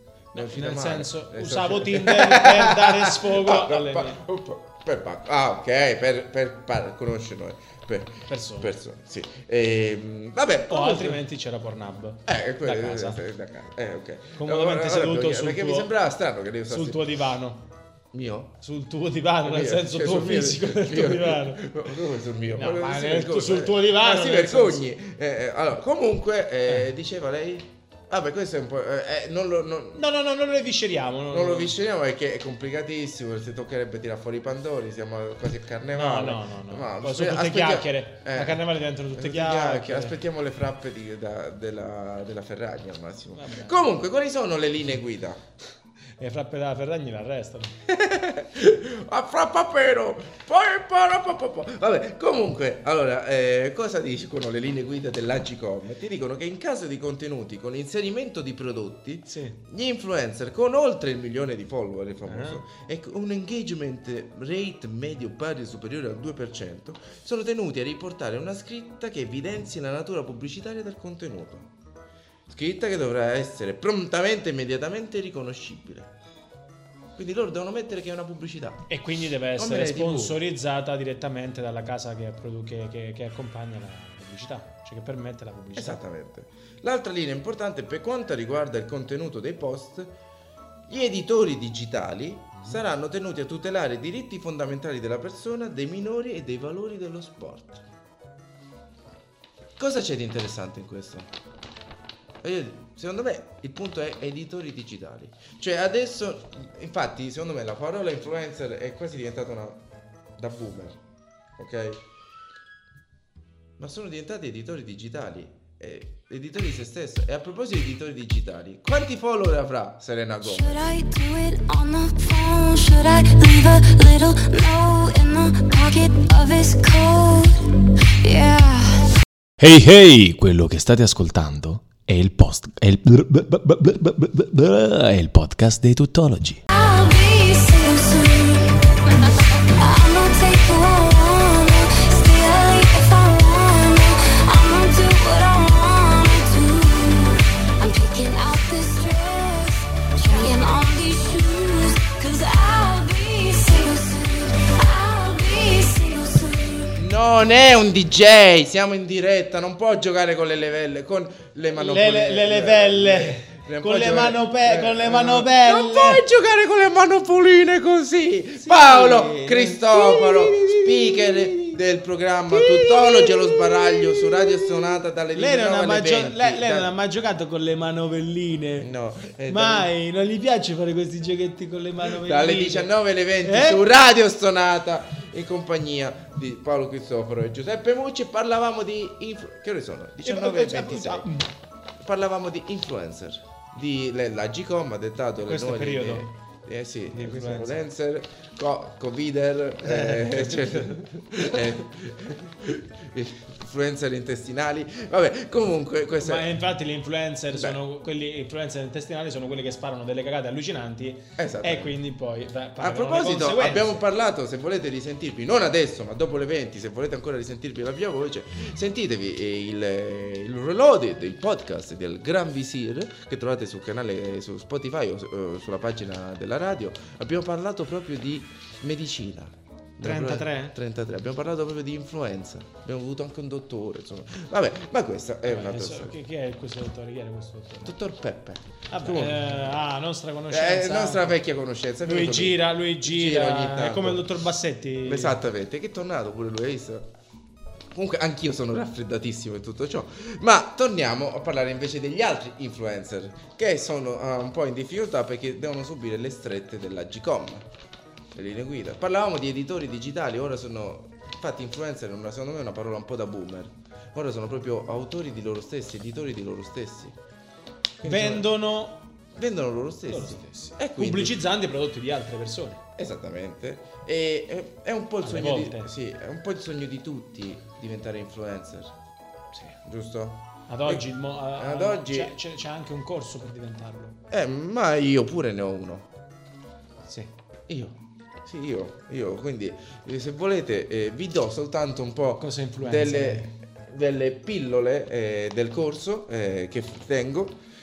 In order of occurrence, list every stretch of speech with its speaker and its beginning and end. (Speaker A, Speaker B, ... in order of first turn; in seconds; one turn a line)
Speaker A: 0.3-4.2
Speaker B: 0.3-11.2
Speaker A: 8.3-8.7
Speaker A: 10.7-13.2
Speaker B: 12.2-17.0
Speaker A: 14.4-15.9
Speaker A: 16.7-17.6
Speaker B: 18.1-18.6
Speaker A: 18.6-21.7
Speaker B: 19.4-30.0
Speaker A: 22.5-24.9
Speaker A: 29.9-31.8
Speaker B: 31.3-45.4
Speaker A: 35.9-40.2
Speaker A: 43.3-43.9
Speaker A: 46.2-47.8
Speaker B: 47.9-71.7
Speaker A: 59.3-59.6
Speaker A: 62.2-62.6
Speaker B: 72.5-76.1
Speaker B: 77.2-78.9
Speaker A: 78.9-86.0
Speaker B: 79.6-80.4
Speaker B: 85.8-90.1
Speaker B: 90.9-97.8
Speaker A: 92.6-92.8
Speaker B: 99.8-101.3
Speaker B: 102.4-109.8
Speaker B: 110.4-111.0
Speaker B: 111.6-112.0
Speaker B: 113.8-121.0
Speaker C: 120.4-129.1
Speaker D: 129.6-136.6
Speaker C: 136.7-157.0
Speaker B: 157.0-176.9
Speaker A: 161.8-166.2
Speaker A: 168.6-171.8
Speaker A: 172.5-178.9
Speaker B: 178.8-179.9
Speaker A: 179.5-183.9
Speaker B: 182.0-191.3
Speaker A: 190.2-191.5
Speaker B: 192.0-206.5
Speaker A: 195.4-196.3
Speaker A: 197.1-197.8
Speaker A: 199.8-201.1
Speaker A: 206.2-214.0
Speaker B: 207.5-207.8
Speaker B: 211.4-212.0
Speaker B: 212.8-236.2
Speaker A: 230.0-230.8
Speaker A: 235.4-238.0
Speaker B: 237.8-239.7
Speaker A: 238.9-241.4
Speaker B: 240.5-244.3
Speaker A: 242.0-245.4
Speaker B: 245.0-247.1
Speaker B: 247.9-257.7
Speaker B: 258.3-267.2
Speaker B: 268.0-268.5
Speaker A: 268.0-269.0
Speaker B: 269.3-271.4
Speaker A: 270.1-272.8
Speaker B: 273.0-278.9
Speaker A: 275.2-275.9
Speaker B: 279.5-282.4
Speaker A: 280.7-284.2
Speaker B: 284.3-286.1
Speaker A: 287.1-287.3
Speaker B: 287.7-297.6
Speaker A: 292.4-293.5